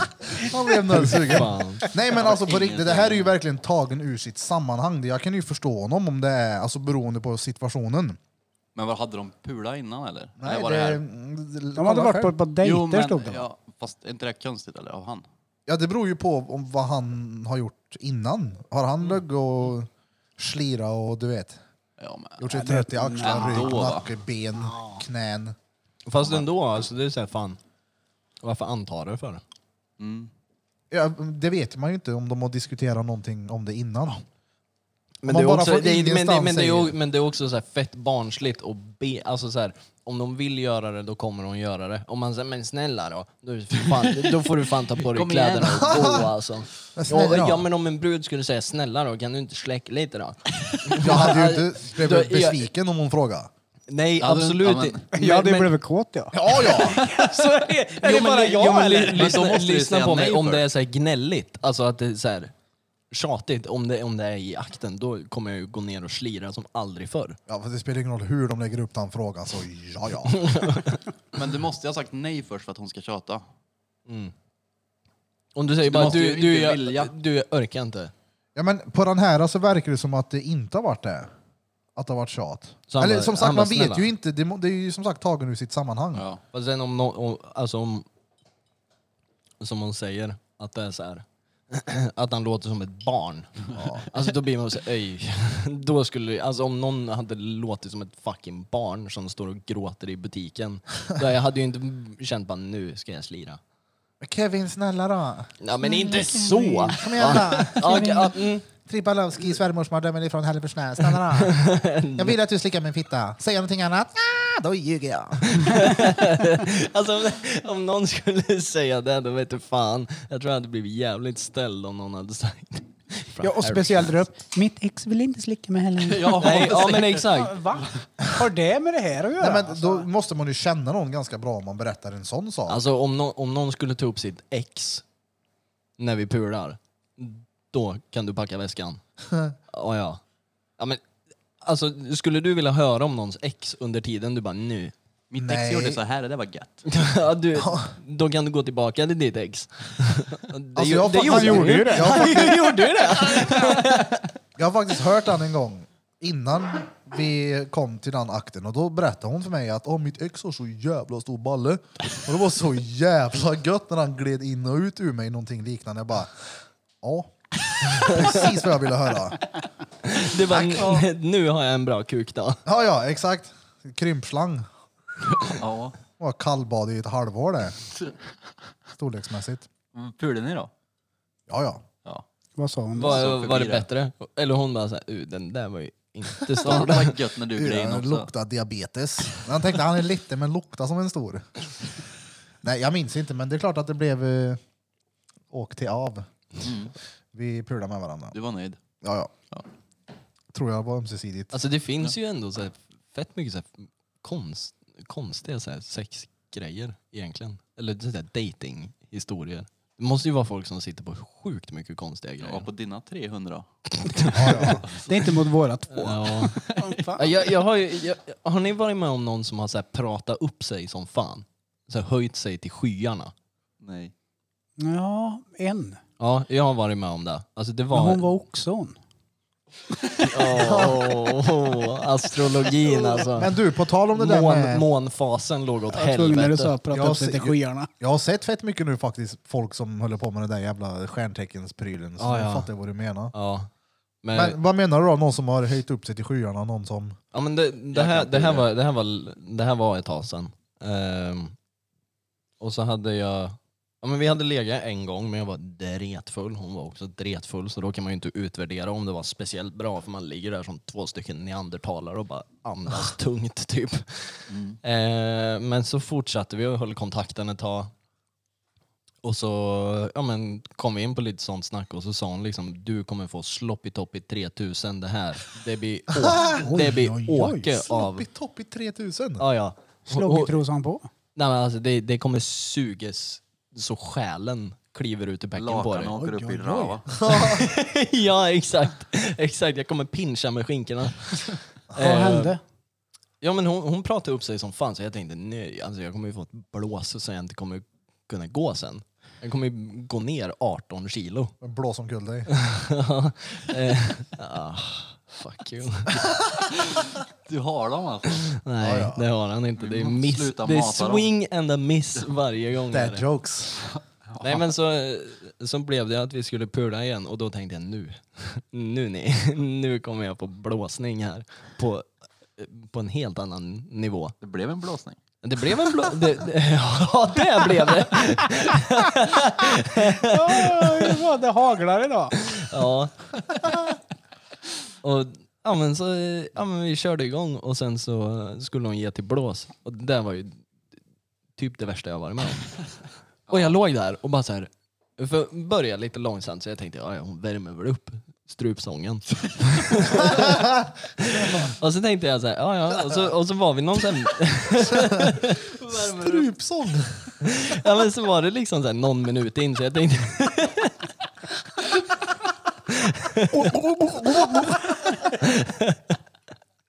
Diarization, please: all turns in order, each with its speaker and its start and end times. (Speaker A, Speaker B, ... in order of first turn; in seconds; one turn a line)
Speaker A: 0.4-8.2
Speaker B: 1.0-1.9
Speaker C: 2.0-3.4
Speaker C: 8.8-11.0
Speaker A: 10.4-12.4
Speaker D: 11.8-13.4
Speaker C: 12.6-15.3
Speaker A: 15.7-21.6
Speaker C: 22.0-22.5
Speaker A: 22.4-25.6
Speaker D: 22.5-23.9
Speaker C: 23.2-24.1
Speaker D: 24.6-25.0
Speaker B: 26.1-27.6
Speaker B: 28.4-29.4
Speaker C: 30.0-30.3
Speaker A: 30.9-34.2
Speaker B: 35.2-52.6
Speaker A: 35.2-37.0
Speaker C: 43.9-46.1
Speaker A: 45.8-46.3
Speaker A: 47.0-47.6
Speaker A: 51.0-53.5
Speaker B: 53.9-55.8
Speaker C: 54.2-55.1
Speaker D: 55.1-59.3
Speaker A: 56.3-57.0
Speaker B: 58.0-62.5
Speaker C: 58.1-60.7
Speaker B: 63.1-67.4
Speaker A: 67.5-70.5
Speaker B: 70.3-71.0
Speaker C: 71.3-73.5
Speaker B: 74.1-74.3
Speaker B: 75.5-78.1
Speaker C: 75.8-77.2
Speaker A: 78.5-81.3
Speaker A: 82.0-86.3
Speaker B: 82.9-84.1
Speaker C: 86.1-86.4
Speaker B: 86.5-88.1
Speaker B: 89.6-93.5
Speaker A: 93.8-94.0
Speaker B: 94.0-103.6
Speaker A: 104.2-105.5
Speaker B: 105.6-108.7
Speaker D: 105.8-108.4
Speaker A: 107.0-108.2
Speaker A: 108.8-111.6
Speaker B: 111.4-112.3
Speaker A: 112.2-115.7
Speaker B: 115.5-124.2
Speaker D: 123.4-130.1
Speaker C: 126.0-128.0
Speaker B: 126.4-127.6
Speaker A: 129.4-132.8
Speaker B: 132.7-135.0
Speaker B: 136.0-139.0
Speaker B: 139.7-140.2
Speaker B: 141.6-144.9
Speaker C: 145.3-146.9
Speaker A: 145.4-146.0
Speaker B: 146.9-154.3
Speaker A: 147.6-147.9
Speaker A: 150.8-152.8
Speaker D: 151.1-153.8
Speaker A: 154.6-169.4
Speaker B: 168.0-168.4
Speaker B: 170.0-172.6
Speaker A: 170.5-171.1
Speaker A: 172.7-174.7
Speaker C: 175.3-176.0
Speaker A: 176.2-177.8
Speaker A: 179.0-179.7
Speaker C: 179.9-180.7
Speaker A: 181.5-181.8
Speaker D: 182.6-183.2
Speaker B: 183.0-187.2
Speaker C: 183.0-183.9
Speaker C: 186.6-188.3
Speaker A: 187.6-191.5
Speaker A: 192.6-194.6
Speaker A: 195.5-196.3
Speaker C: 196.6-196.9
Speaker A: 197.3-198.4
Speaker C: 198.3-198.8
Speaker A: 199.0-199.3
Speaker A: 200.5-201.5
Speaker B: 201.5-212.7
Speaker C: 212.4-213.7
Speaker B: 214.0-214.8
Speaker A: 214.3-214.8
Speaker C: 214.6-214.9
Speaker D: 215.1-217.2
Speaker B: 215.9-216.6
Speaker C: 216.5-217.0
Speaker B: 217.2-223.3
Speaker C: 223.8-224.1
Speaker D: 224.8-226.0
Speaker B: 226.2-228.3
Speaker D: 227.9-229.0
Speaker B: 230.2-233.6
Speaker A: 230.5-231.1
Speaker A: 233.2-234.9
Speaker B: 234.1-236.8
Speaker D: 235.9-237.9
Speaker A: 236.9-243.3
Speaker B: 242.2-242.7
Speaker B: 243.3-243.7
Speaker B: 244.2-244.6
Speaker A: 244.3-247.2
Speaker B: 247.3-251.6
Speaker C: 247.9-248.7
Speaker B: 252.6-267.9
Speaker C: 264.5-264.8
Speaker B: 269.2-278.2
Speaker A: 276.3-276.6
Speaker D: 276.5-277.7
Speaker A: 277.8-279.4
Speaker B: 279.4-280.6
Speaker D: 280.1-281.1
Speaker B: 281.4-286.2
Speaker C: 285.6-287.2
Speaker D: 286.2-287.0
Speaker B: 287.2-292.6
Speaker A: 287.2-287.6
Speaker D: 292.0-292.6
Speaker B: 293.4-301.6
Speaker A: 301.6-302.5
Speaker B: 302.5-306.3
Speaker C: 307.5-308.4
Speaker B: 308.4-313.2
Speaker A: 308.8-309.2
Speaker C: 309.8-311.3
Speaker A: 312.9-313.8
Speaker C: 313.9-314.7
Speaker B: 314.4-324.4
Speaker C: 324.4-325.2
Speaker B: 325.4-331.2
Speaker D: 330.2-332.4
Speaker B: 332.4-333.6
Speaker B: 335.0-340.6
Speaker B: 341.6-342.8
Speaker C: 343.5-343.7
Speaker B: 343.5-356.4
Speaker A: 355.0-355.3
Speaker A: 355.9-357.3
Speaker B: 357.4-360.9
Speaker B: 362.9-366.1
Speaker A: 363.6-364.9